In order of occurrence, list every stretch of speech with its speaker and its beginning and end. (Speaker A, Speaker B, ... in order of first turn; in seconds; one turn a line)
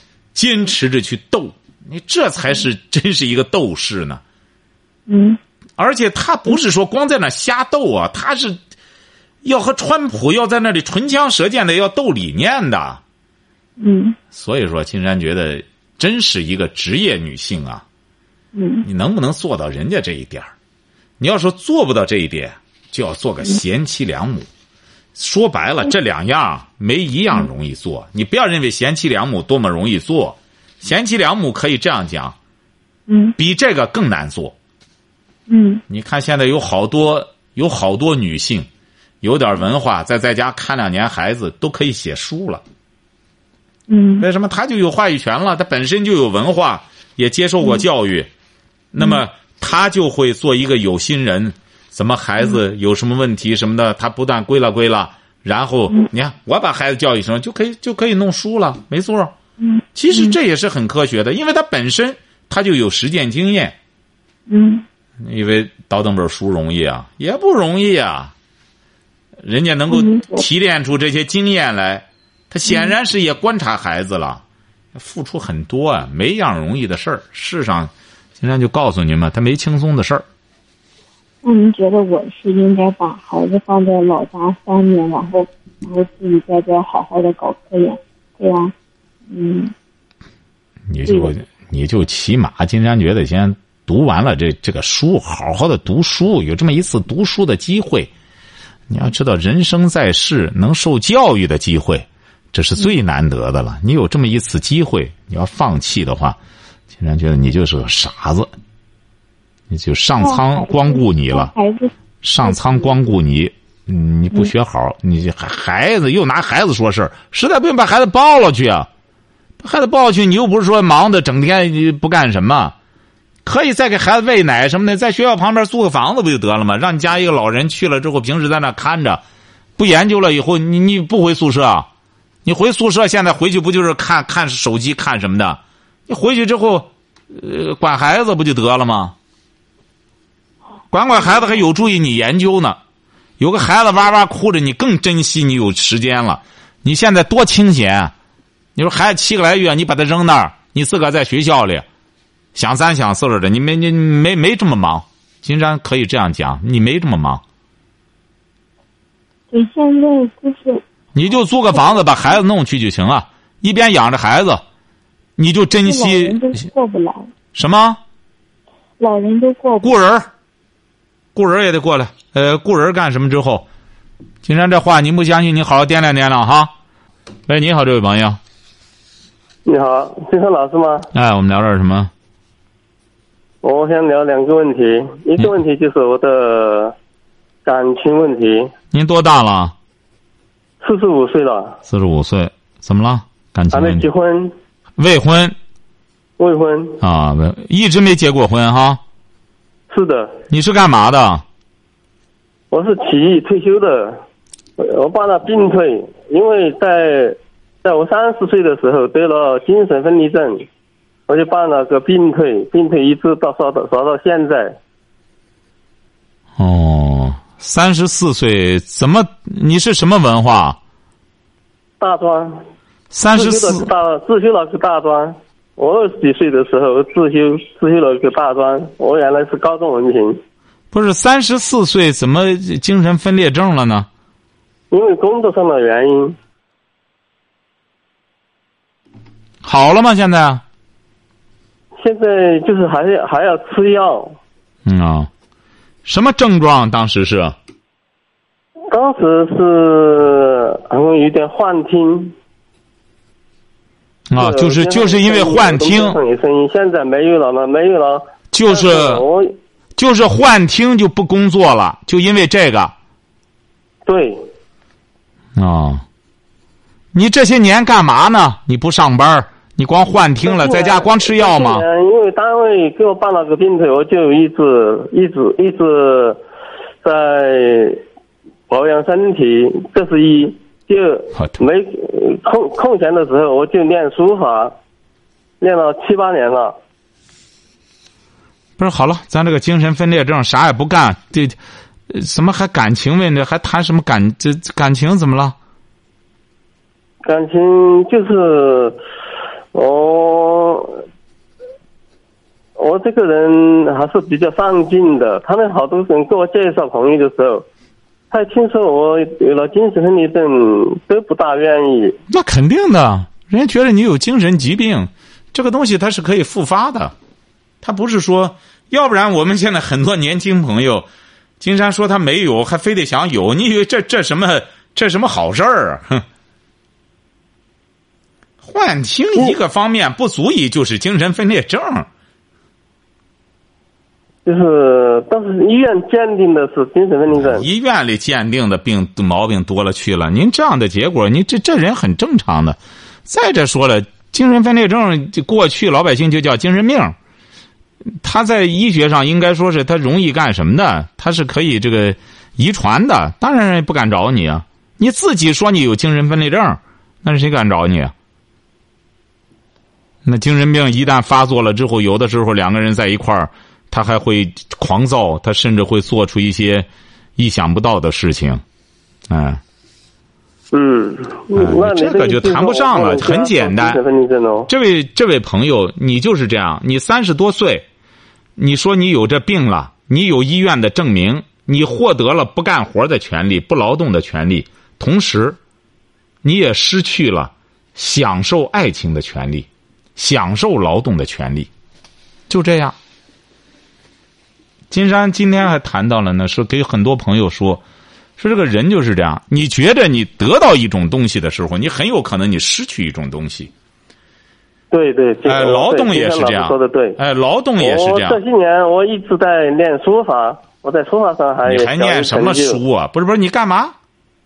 Speaker A: 0.3-4.2
Speaker B: 5.1-5.4
Speaker A: 5.8-8.6
Speaker A: 9.4-13.0
Speaker B: 13.8-14.2
Speaker A: 14.3-17.8
Speaker B: 18.5-18.9
Speaker A: 18.8-20.5
Speaker A: 21.2-24.5
Speaker A: 25.1-32.4
Speaker B: 33.1-33.4
Speaker A: 33.4-34.5
Speaker B: 35.5-35.8
Speaker A: 35.9-38.7
Speaker A: 39.2-42.6
Speaker B: 43.9-44.2
Speaker A: 44.2-48.3
Speaker A: 48.9-59.3
Speaker B: 59.6-60.3
Speaker A: 59.9-63.8
Speaker B: 64.5-64.8
Speaker A: 65.2-68.3
Speaker A: 69.4-74.4
Speaker B: 69.9-70.4
Speaker B: 72.7-72.9
Speaker A: 74.9-80.2
Speaker B: 81.4-88.7
Speaker B: 89.3-89.7
Speaker A: 90.9-98.1
Speaker B: 91.0-91.3
Speaker A: 98.9-106.4
Speaker A: 106.9-108.5
Speaker A: 109.7-111.5
Speaker B: 110.2-111.9
Speaker A: 112.2-118.9
Speaker B: 112.4-112.9
Speaker A: 119.6-122.7
Speaker A: 123.4-129.2
Speaker A: 129.8-131.9
Speaker A: 132.4-139.2
Speaker A: 140.9-142.8
Speaker A: 143.4-148.1
Speaker A: 148.7-151.8
Speaker A: 152.5-157.4
Speaker B: 159.5-160.8
Speaker A: 161.1-164.6
Speaker A: 165.4-166.4
Speaker B: 165.8-167.3
Speaker A: 167.5-168.0
Speaker B: 169.0-169.9
Speaker A: 169.8-170.3
Speaker A: 171.3-173.7
Speaker A: 174.4-176.7
Speaker A: 177.5-178.4
Speaker C: 179.6-181.1
Speaker A: 181.1-182.1
Speaker C: 183.6-186.9
Speaker C: 187.6-188.7
Speaker A: 188.9-189.7
Speaker C: 190.8-191.8
Speaker A: 191.9-194.1
Speaker C: 193.7-194.5
Speaker A: 195.0-195.6
Speaker C: 196.4-197.0
Speaker A: 197.0-199.0
Speaker C: 199.9-200.3
Speaker A: 200.5-201.4
Speaker C: 202.7-204.2
Speaker C: 204.8-210.7
Speaker C: 211.3-214.8
Speaker A: 216.6-220.8
Speaker C: 222.0-222.6
Speaker A: 223.1-223.9
Speaker C: 223.3-230.4
Speaker A: 230.9-234.1
Speaker C: 234.9-236.4
Speaker A: 239.6-240.6
Speaker C: 242.0-244.4
Speaker A: 244.8-245.3
Speaker A: 246.0-247.6
Speaker C: 248.9-252.3
Speaker A: 254.3-256.2
Speaker C: 254.3-259.5
Speaker A: 258.5-259.2
Speaker A: 259.9-262.9
Speaker C: 264.1-264.4
Speaker A: 265.6-266.0
Speaker A: 267.1-271.8
Speaker C: 270.4-276.4
Speaker C: 277.0-278.0
Speaker C: 278.7-284.8
Speaker C: 285.6-286.8
Speaker A: 288.8-291.6
Speaker A: 292.1-295.6
Speaker C: 297.2-299.0
Speaker C: 299.7-301.0
Speaker C: 302.8-307.6
Speaker C: 308.3-312.1
Speaker A: 312.3-317.1
Speaker A: 317.8-321.1
Speaker A: 321.6-326.2
Speaker A: 328.6-332.1
Speaker C: 334.4-337.7
Speaker A: 337.3-347.1
Speaker A: 348.1-358.1
Speaker A: 360.2-368.6
Speaker A: 369.3-369.6
Speaker C: 370.7-374.7
Speaker A: 371.6-374.0
Speaker A: 374.7-377.9
Speaker A: 378.6-385.6
Speaker A: 386.4-391.7
Speaker A: 392.5-392.9
Speaker A: 394.9-397.8
Speaker A: 398.4-403.7
Speaker C: 404.9-407.2
Speaker A: 405.4-408.4
Speaker C: 407.8-412.8
Speaker A: 411.6-413.9